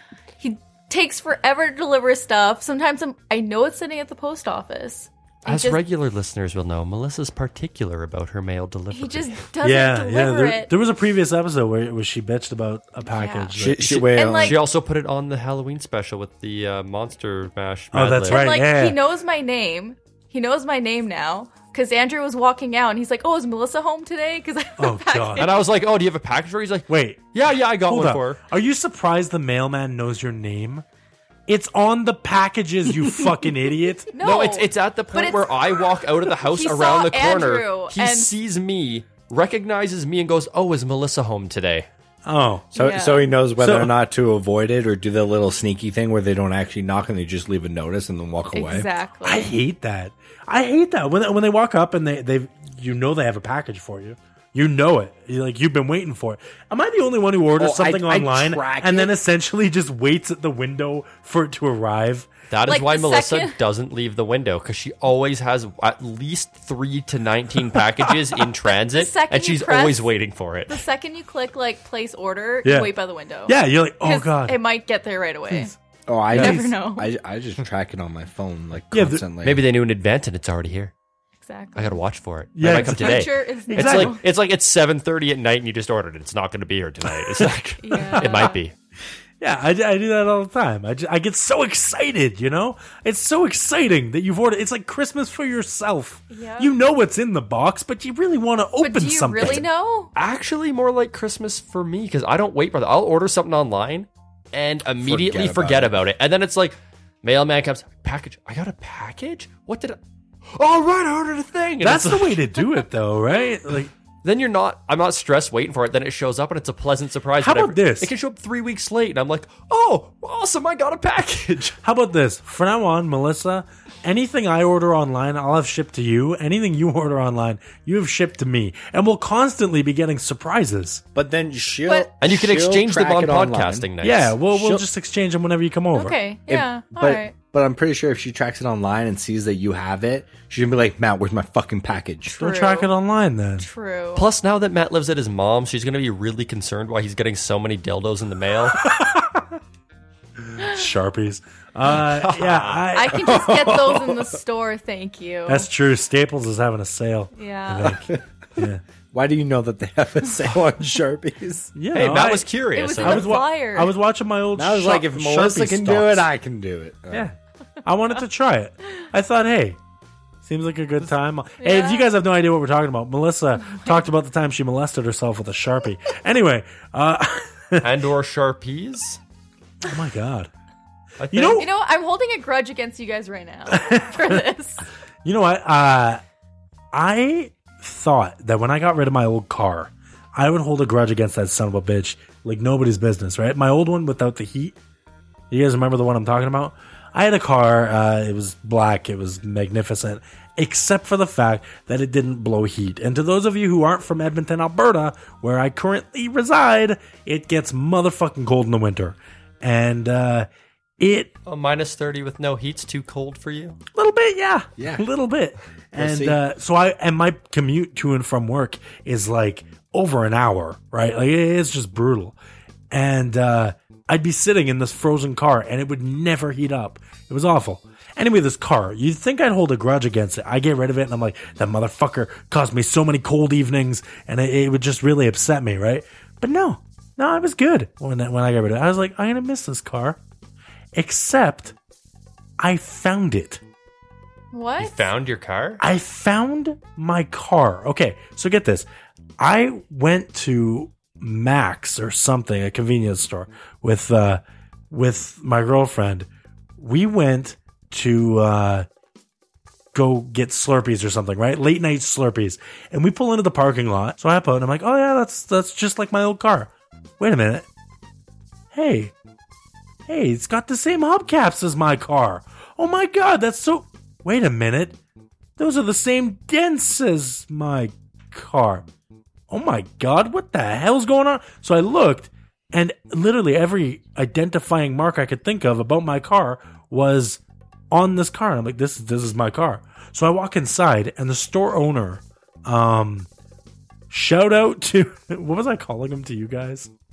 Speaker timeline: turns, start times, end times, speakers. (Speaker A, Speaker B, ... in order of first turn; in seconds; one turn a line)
Speaker A: 0.4-5.8
Speaker B: 5.5-9.4
Speaker A: 8.9-10.7
Speaker C: 9.6-13.9
Speaker A: 13.1-13.5
Speaker D: 13.6-14.6
Speaker B: 13.8-18.6
Speaker A: 14.1-14.6
Speaker C: 17.9-19.0
Speaker A: 18.3-25.6
Speaker C: 24.8-25.5
Speaker B: 25.4-28.4
Speaker C: 26.9-30.8
Speaker C: 31.5-34.1
Speaker A: 34.1-38.3
Speaker B: 34.2-41.9
Speaker C: 42.2-42.7
Speaker A: 42.7-43.3
Speaker D: 42.7-48.9
Speaker C: 43.6-43.9
Speaker A: 48.5-49.5
Speaker C: 49.2-62.3
Speaker D: 57.6-59.1
Speaker B: 62.5-70.8
Speaker A: 62.7-63.6
Speaker A: 68.9-70.0
Speaker A: 70.7-75.7
Speaker C: 72.6-72.9
Speaker C: 73.5-74.6
Speaker D: 76.1-79.6
Speaker C: 76.3-76.7
Speaker A: 76.3-77.1
Speaker C: 78.9-79.2
Speaker B: 79.4-80.9
Speaker A: 81.4-82.0
Speaker B: 81.7-88.7
Speaker C: 82.5-84.2
Speaker A: 82.6-84.2
Speaker A: 87.8-88.6
Speaker C: 88.1-88.5
Speaker C: 89.4-99.7
Speaker A: 96.3-96.7
Speaker A: 98.8-100.1
Speaker B: 100.1-110.0
Speaker D: 105.0-106.0
Speaker B: 110.5-112.4
Speaker C: 111.8-113.9
Speaker B: 114.2-121.8
Speaker C: 117.4-118.1
Speaker C: 121.8-131.0
Speaker D: 131.1-133.8
Speaker B: 132.2-134.3
Speaker C: 134.0-136.2
Speaker D: 134.5-134.8
Speaker A: 135.9-137.3
Speaker D: 136.5-142.4
Speaker A: 142.3-142.9
Speaker C: 142.4-143.7
Speaker A: 143.6-144.3
Speaker B: 144.2-148.8
Speaker C: 148.8-149.6
Speaker C: 150.6-154.3
Speaker B: 151.8-152.9
Speaker A: 152.9-155.7
Speaker D: 153.4-153.8
Speaker C: 155.5-158.8
Speaker A: 157.3-158.0
Speaker D: 157.8-158.2
Speaker D: 159.1-161.7
Speaker C: 161.8-166.3
Speaker B: 161.9-163.4
Speaker A: 162.7-163.9
Speaker D: 164.5-167.3
Speaker C: 167.1-169.8
Speaker C: 170.4-177.9
Speaker A: 171.6-172.1
Speaker B: 177.8-179.2
Speaker C: 179.8-180.5
Speaker B: 181.2-181.6
Speaker C: 181.3-181.7
Speaker A: 181.6-184.8
Speaker C: 183.7-184.4
Speaker C: 185.2-186.2
Speaker C: 186.9-194.8
Speaker C: 195.5-210.5
Speaker C: 211.0-211.3
Speaker B: 211.4-213.8
Speaker C: 213.9-222.3
Speaker D: 214.8-215.0
Speaker D: 215.9-216.4
Speaker C: 222.9-240.2
Speaker C: 240.9-241.7
Speaker C: 242.6-243.6
Speaker A: 244.5-245.1
Speaker B: 244.8-245.8
Speaker C: 245.8-248.8
Speaker C: 249.4-256.3
Speaker C: 256.8-258.9
Speaker C: 259.9-267.6
Speaker C: 268.7-269.1
Speaker C: 270.1-275.0
Speaker C: 275.6-278.9
Speaker C: 279.5-293.3
Speaker C: 294.1-296.9